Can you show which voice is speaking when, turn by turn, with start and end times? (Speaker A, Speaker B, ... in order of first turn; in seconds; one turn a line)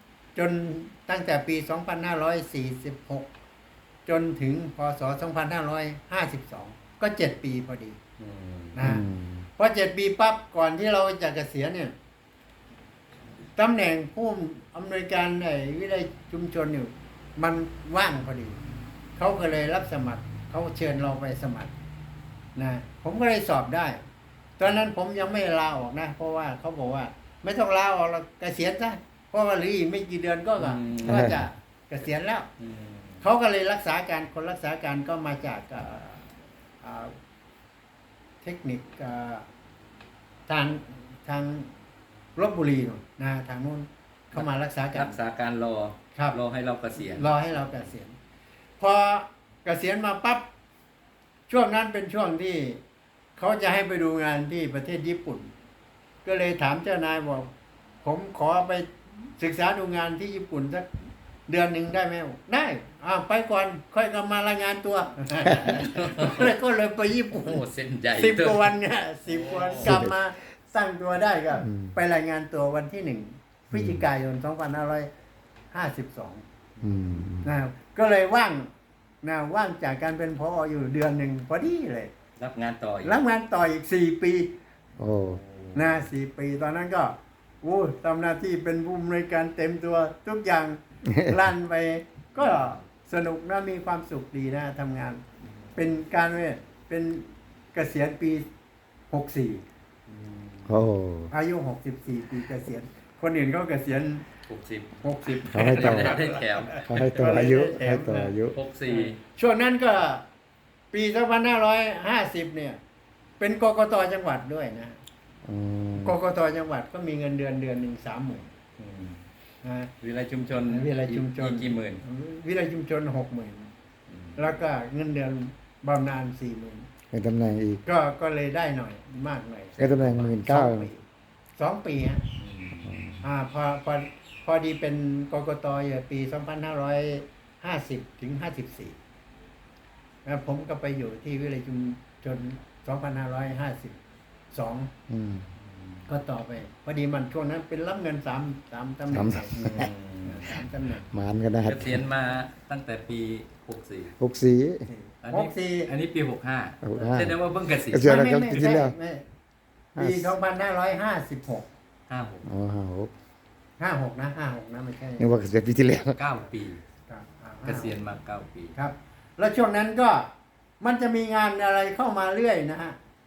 Speaker A: 0.3-3.3
Speaker A: 4.1-8.0
Speaker B: 8.2-8.8
Speaker A: 8.8-11.9
Speaker C: 8.8-9.5
Speaker A: 13.6-18.6
Speaker A: 19.2-21.7
Speaker A: 22.6-24.0
Speaker A: 24.6-32.5
Speaker B: 30.6-31.4
Speaker B: 32.6-33.2
Speaker A: 33.2-36.3
Speaker A: 36.8-37.1
Speaker A: 38.4-39.5
Speaker A: 40.5-41.7
Speaker A: 42.4-45.2
Speaker B: 44.3-47.3
Speaker A: 46.1-46.4
Speaker A: 47.0-48.1
Speaker A: 48.8-50.5
Speaker A: 51.5-52.8
Speaker A: 53.4-55.5
Speaker A: 56.2-57.5
Speaker A: 58.0-60.9
Speaker A: 61.5-67.6
Speaker B: 65.5-66.5
Speaker B: 67.3-68.7
Speaker A: 68.1-75.1
Speaker B: 69.3-70.0
Speaker C: 69.8-70.1
Speaker C: 71.6-72.0
Speaker C: 73.7-74.1
Speaker A: 75.7-76.4
Speaker B: 76.8-77.3
Speaker C: 76.8-77.5
Speaker A: 77.4-78.7
Speaker A: 79.2-82.1
Speaker B: 82.4-83.2
Speaker A: 83.0-84.5
Speaker C: 85.0-85.4
Speaker B: 85.2-86.1
Speaker A: 85.8-95.2
Speaker B: 92.4-92.8
Speaker B: 95.4-95.9
Speaker A: 95.8-98.5
Speaker A: 99.1-99.6
Speaker B: 100.1-100.8
Speaker C: 100.7-101.3
Speaker A: 101.3-104.3
Speaker B: 104.5-107.4
Speaker A: 105.0-108.4
Speaker C: 105.5-106.2
Speaker C: 106.8-108.6
Speaker B: 108.5-109.2
Speaker A: 108.9-110.2
Speaker A: 110.9-112.8
Speaker A: 113.4-115.0
Speaker C: 115.5-116.2
Speaker A: 116.0-118.5
Speaker B: 118.8-119.2
Speaker A: 119.6-119.9
Speaker B: 120.0-122.0
Speaker A: 120.7-123.7
Speaker B: 124.1-124.5
Speaker A: 124.4-126.9
Speaker C: 127.1-127.8
Speaker A: 127.8-131.1
Speaker C: 129.8-130.9
Speaker A: 131.6-132.2
Speaker B: 132.4-133.0
Speaker C: 132.8-133.3
Speaker A: 133.2-139.0
Speaker A: 140.2-144.0
Speaker A: 144.5-144.9
Speaker C: 145.1-145.5
Speaker B: 145.6-146.1
Speaker A: 146.1-151.1
Speaker C: 149.1-149.9
Speaker B: 149.8-150.6
Speaker C: 151.1-152.1
Speaker B: 151.7-154.1
Speaker C: 154.2-154.8
Speaker A: 154.9-155.9
Speaker B: 155.2-158.8
Speaker C: 156.8-159.0
Speaker A: 158.0-159.2
Speaker C: 160.0-160.3
Speaker A: 160.0-161.7
Speaker B: 162.1-162.5
Speaker C: 162.4-163.1
Speaker A: 163.8-165.3
Speaker C: 165.2-166.2
Speaker B: 166.2-166.8
Speaker A: 167.1-167.9
Speaker B: 167.7-168.8
Speaker A: 168.8-173.0